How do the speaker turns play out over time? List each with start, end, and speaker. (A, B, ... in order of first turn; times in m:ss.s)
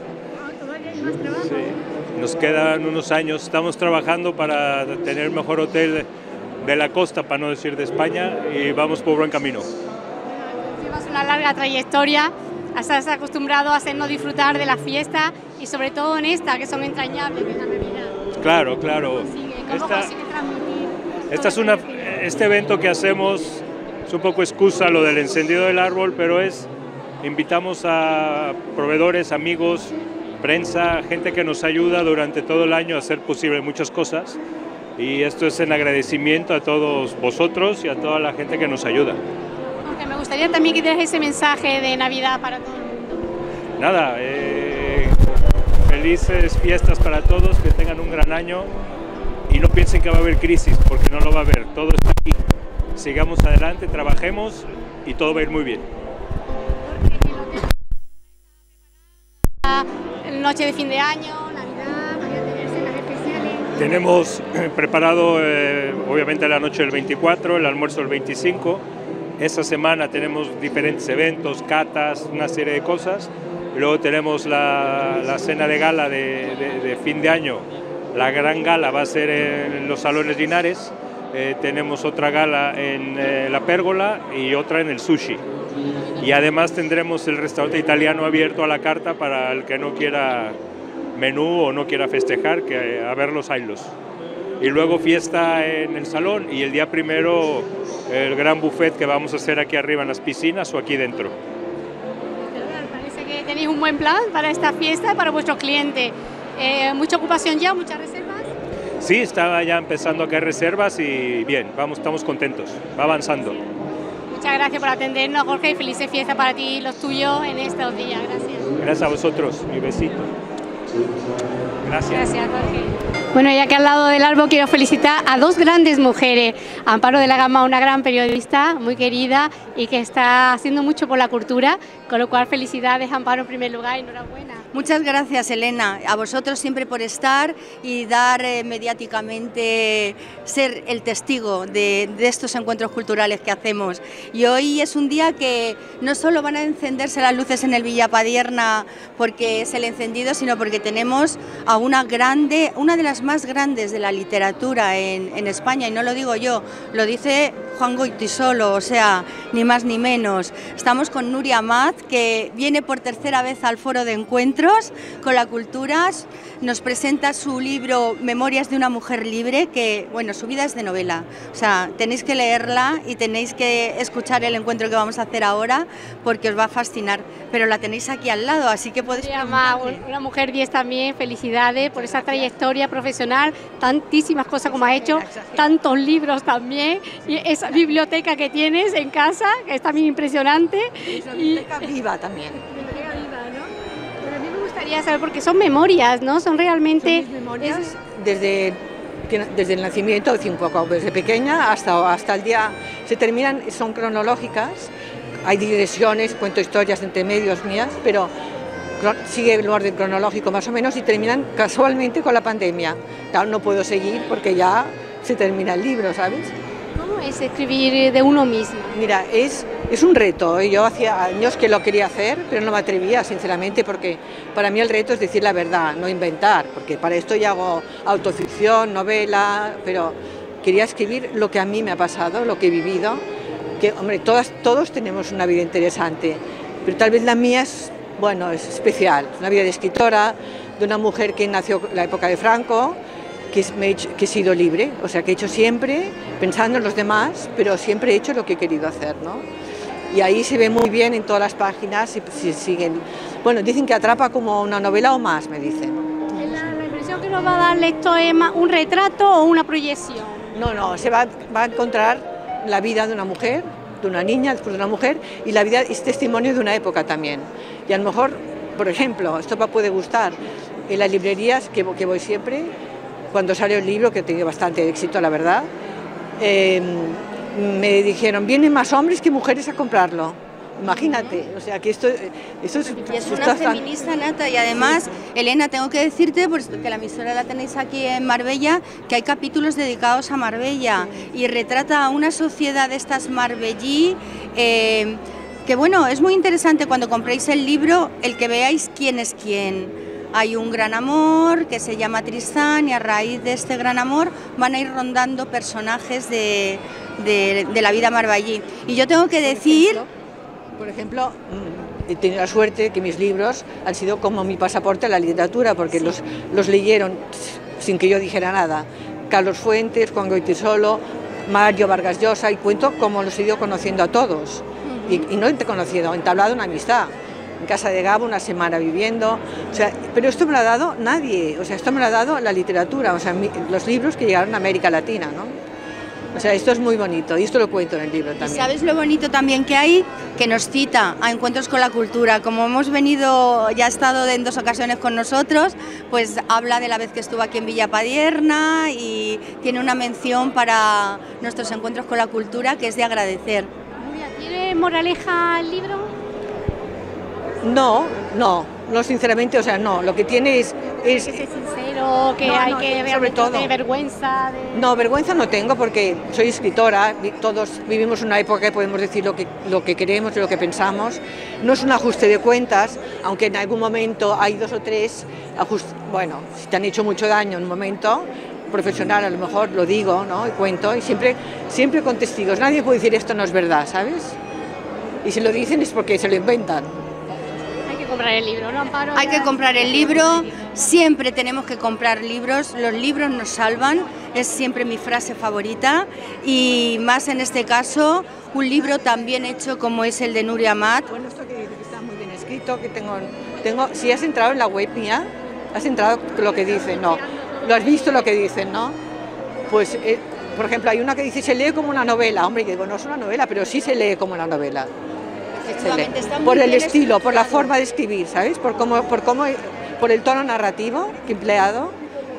0:00.4-0:01.7 A
0:02.2-0:06.1 B
0:06.6-0:09.7 B
0:10.3-0:18.2 A
0:18.4-0:20.1 B
0:19.2-0:22.4 A
0:21.3-0:26.7 B
0:27.2-0:34.4 B
0:35.0-0:39.1 B
0:39.8-0:43.2 A
0:43.8-0:45.2 B
0:45.9-0:48.7 B
0:49.5-0:52.4 B
0:53.0-0:55.8 B
0:56.9-0:57.7 A
0:59.6-1:03.8 A
1:03.8-1:08.8 B
1:09.4-1:25.4 B
1:26.2-1:30.6 B
1:31.2-1:33.9 B
1:34.6-1:41.4 B
1:42.5-1:48.5 A
1:49.0-1:53.6 B
1:54.3-1:58.7 A
1:58.8-2:00.3 B
2:01.8-2:02.2 B
2:02.1-2:14.6 A
2:14.7-3:00.0 C
2:59.2-3:11.9 A
3:02.0-3:02.5 D
3:04.6-3:05.8 D
3:11.1-3:12.6 D
3:12.6-3:13.7 A
3:14.2-3:17.9 A
3:17.0-3:24.9 D
3:25.4-3:28.3 D
3:29.0-3:36.5 D
3:36.9-3:39.0 A
3:38.9-3:53.2 D
3:53.8-4:03.0 D
4:03.5-4:09.5 D
4:10.1-4:16.1 D
4:16.4-4:20.5 A
4:20.5-4:32.7 D
4:33.3-4:35.7 D
4:36.4-4:43.9 D
4:43.1-5:10.0 C
5:09.4-5:10.1 D
5:10.8-5:35.6 D
5:24.8-5:25.3 C
5:36.3-5:38.7 D
5:38.4-5:53.7 C
5:54.0-5:56.1 A
5:57.6-6:01.4 D
6:01.0-6:04.9 A
6:02.4-6:03.7 D
6:04.7-6:24.4 D
6:25.2-6:26.9 D
6:27.9-6:30.3 A
6:29.2-6:41.1 C
6:41.1-6:49.0 D
6:46.7-6:48.1 A
6:49.7-6:54.9 D
6:55.6-6:57.7 C
6:55.6-7:02.0 D